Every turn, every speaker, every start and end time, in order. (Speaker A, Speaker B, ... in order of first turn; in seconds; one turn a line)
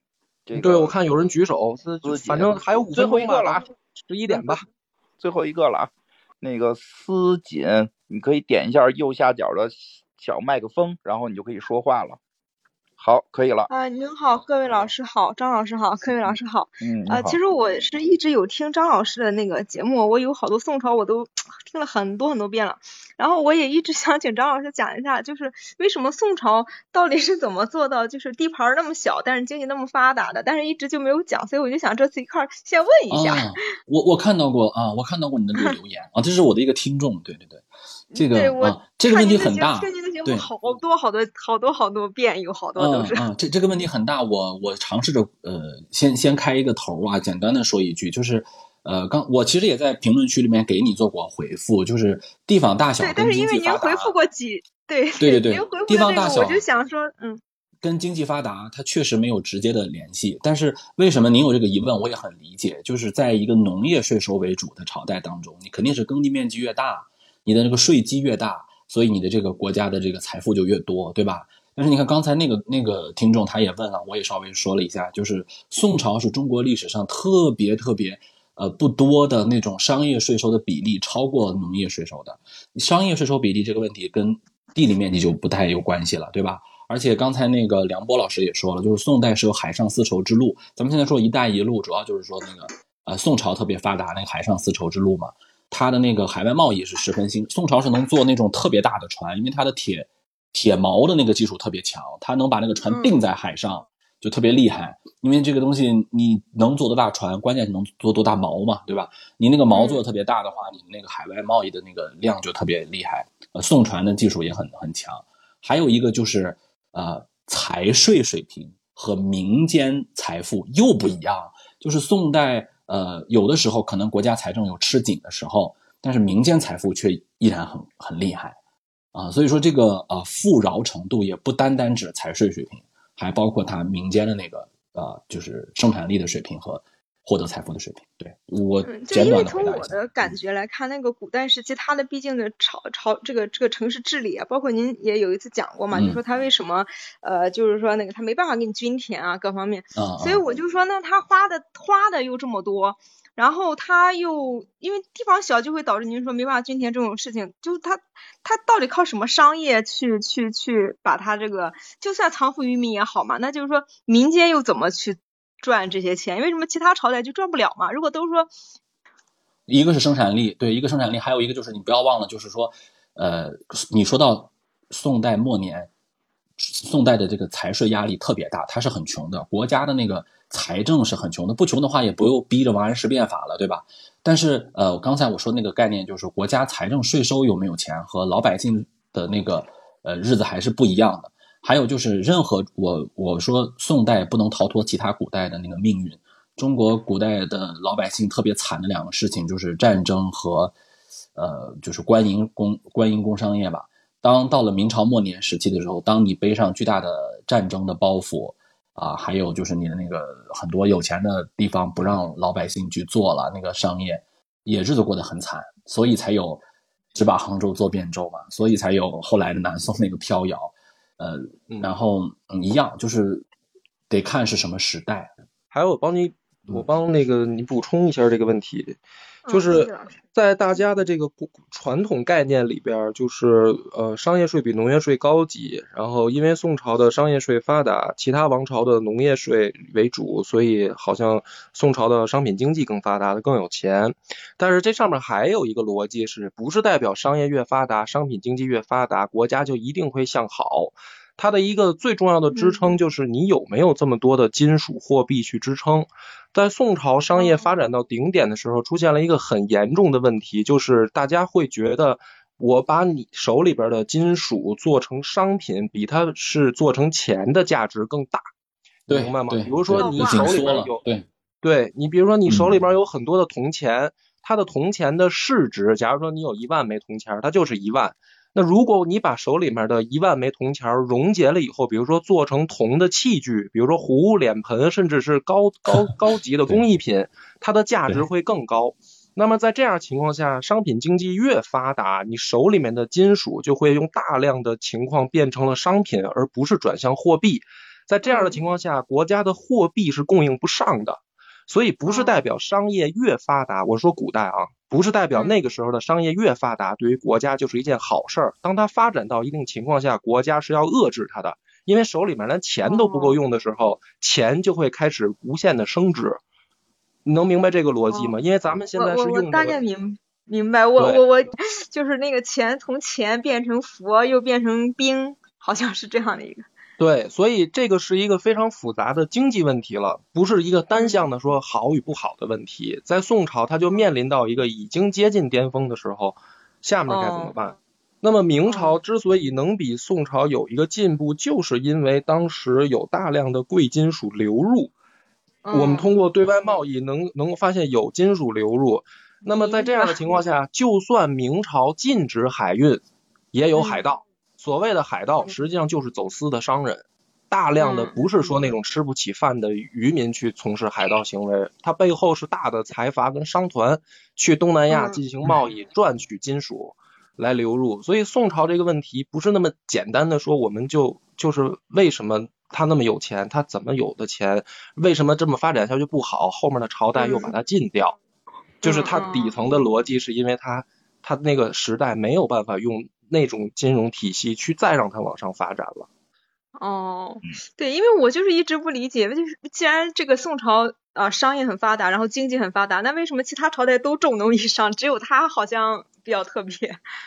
Speaker A: 0.5-0.9
Speaker B: 0.6-4.7
Speaker A: 2.0-3.6
Speaker A: 5.2-5.9
Speaker A: 6.4-12.2
Speaker A: 13.0-13.7
Speaker C: 13.7-33.6
Speaker A: 16.2-17.4
Speaker D: 33.1-37.6
Speaker C: 38.1-43.3
Speaker D: 38.1-40.5
Speaker D: 42.8-54.1
Speaker C: 53.0-57.4
Speaker D: 55.2-56.6
Speaker D: 57.8-128.6
Speaker C: 102.9-103.2
Speaker C: 109.7-110.0
Speaker D: 129.1-140.4
Speaker C: 138.8-168.5
Speaker D: 145.9-146.2
Speaker D: 149.9-150.4
Speaker D: 169.7-175.9
Speaker D: 176.6-200.7
Speaker D: 201.4-216.6
Speaker D: 217.1-223.4
Speaker D: 224.1-225.3
Speaker B: 225.7-229.0
Speaker C: 229.4-230.1
Speaker B: 229.5-268.5
Speaker C: 252.5-253.0
Speaker C: 257.3-257.7
Speaker B: 269.1-271.0
Speaker D: 269.1-271.2
Speaker C: 270.0-270.8
Speaker B: 271.6-316.4
Speaker D: 272.5-272.8
Speaker C: 298.2-298.6
Speaker C: 302.1-302.4
Speaker C: 305.3-305.6
Speaker C: 312.8-313.4
Speaker B: 317.2-319.8
Speaker C: 318.9-326.7
Speaker B: 321.0-321.2
Speaker B: 327.0-344.9
Speaker C: 330.9-331.2
Speaker C: 337.1-337.5
Speaker C: 338.7-338.9
Speaker C: 345.6-346.1
Speaker B: 345.7-378.2
Speaker C: 349.4-350.2
Speaker C: 353.7-354.0
Speaker C: 357.8-358.2
Speaker C: 364.9-365.2
Speaker C: 377.1-377.5
Speaker C: 378.8-379.6
Speaker B: 378.8-386.1
Speaker C: 386.8-397.0